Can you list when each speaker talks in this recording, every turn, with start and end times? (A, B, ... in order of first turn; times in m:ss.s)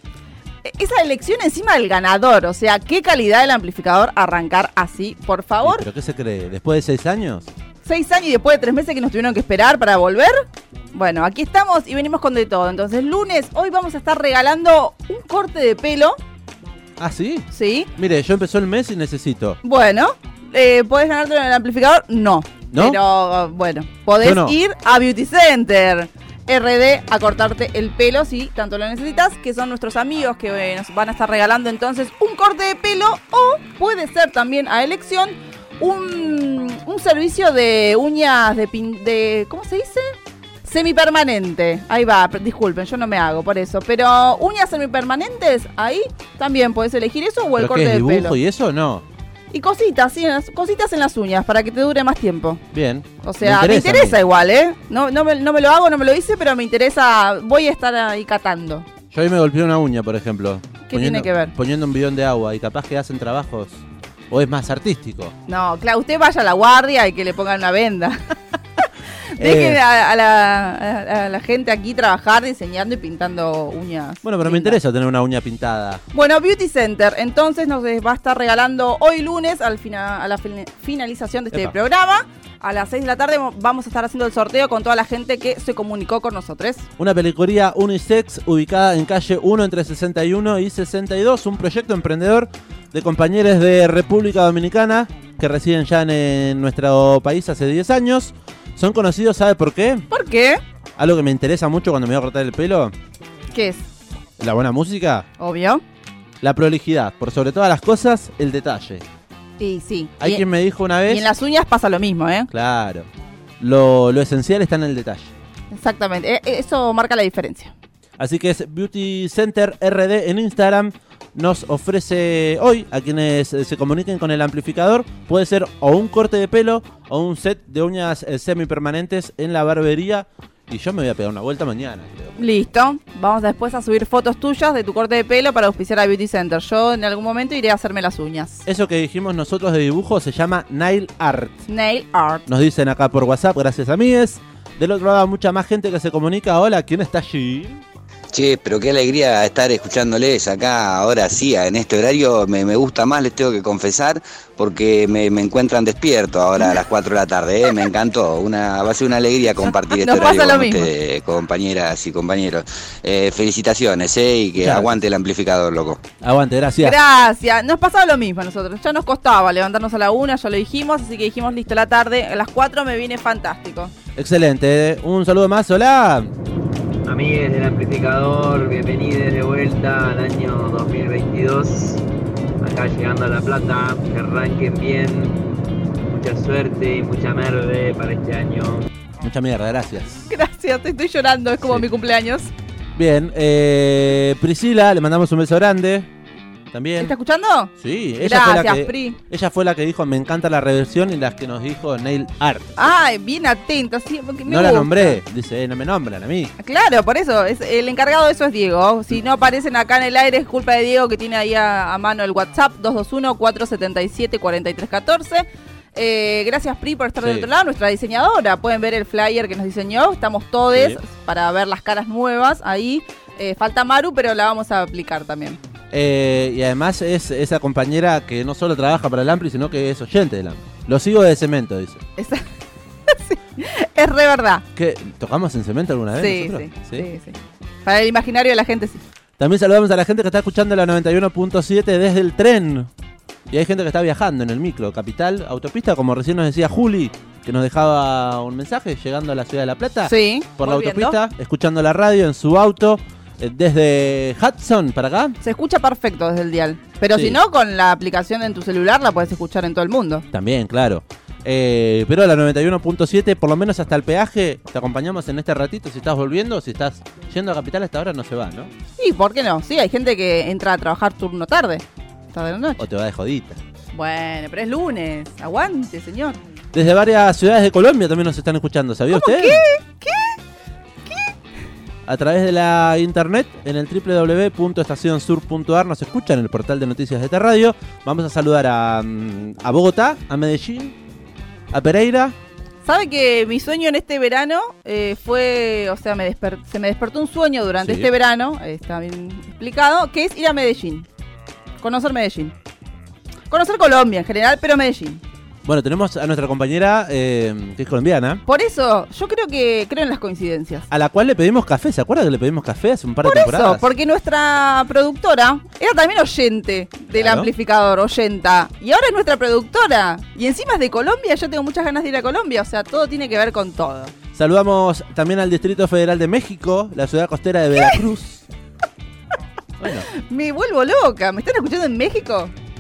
0:00.6-0:05.9 A
0:05.6-0:07.5 B
0:07.8-0:16.2 A
0:17.0-0:19.6 B
0:17.5-0:17.9 A
0:19.6-0:40.1 A
0:22.7-0:23.0 B
0:24.2-0:24.6 B
0:40.6-0:48.4 A
0:47.6-0:49.0 B
0:49.5-0:52.6 A
0:52.7-0:54.2 B
0:53.2-0:58.9 A
0:59.1-1:05.3 B
1:00.9-1:01.5 A
1:05.5-1:08.8 A
1:09.4-1:09.8 B
1:09.4-1:14.8 A
1:14.2-1:16.0 B
1:16.1-1:26.9 A
1:27.0-1:40.1 B
1:40.1-1:40.6 A
1:41.0-1:42.9 B
1:43.5-1:43.8 A
1:44.4-1:45.3 B
1:45.4-1:45.8 A
1:46.4-1:49.0 B
1:49.6-1:50.4 A
1:50.2-1:51.2 B
1:51.1-1:52.5 A
1:52.5-1:53.1 B
1:53.6-1:55.3 B
1:55.7-1:57.7 A
1:58.2-2:12.3 B
2:12.4-2:18.6 A
2:18.7-2:21.6 B
2:21.7-2:22.4 A
2:22.5-2:27.8 B
2:28.3-2:46.0 C
2:39.7-2:40.9 A
2:44.6-2:45.0 B
2:46.2-2:47.0 B
2:46.8-2:53.9 A
2:54.2-2:56.3 B
2:57.1-3:02.0 D
3:02.6-3:05.4 D
3:06.1-3:08.9 D
3:09.2-3:10.3 B
3:10.3-3:12.5 A
3:11.6-3:11.8 B
3:13.0-3:16.1 B
3:16.7-3:17.1 B
3:17.0-3:19.2 A
3:17.8-3:22.7 B
3:22.8-3:25.2 A
3:24.5-3:26.5 B
3:26.6-3:45.6 A
3:37.2-3:37.5 B
3:40.7-3:41.0 B
3:45.9-3:52.0 B
3:52.2-3:52.5 A
3:53.1-3:54.6 A
3:54.8-3:57.1 B
3:56.2-3:59.0 A
3:59.4-4:02.9 B
4:03.5-4:15.4 B
4:10.1-4:11.2 A
4:15.4-4:20.2 A
4:17.1-4:17.4 B
4:20.3-4:28.7 B
4:29.0-4:32.8 A
4:32.8-4:33.6 B
4:33.9-4:36.4 A
4:36.7-4:39.6 B
4:39.1-4:40.4 A
4:41.1-4:41.3 A
4:42.1-4:51.0 B
4:51.7-4:52.4 B
4:52.8-5:01.1 A
4:57.8-4:58.1 B
5:01.8-5:02.5 A
5:03.5-5:05.2 A
5:05.6-5:08.4 B
5:08.5-5:10.9 A
5:10.9-5:13.8 B
5:13.2-5:24.1 A
5:17.1-5:17.5 B
5:24.3-5:28.4 B
5:29.8-5:30.1 B
5:30.1-5:32.5 A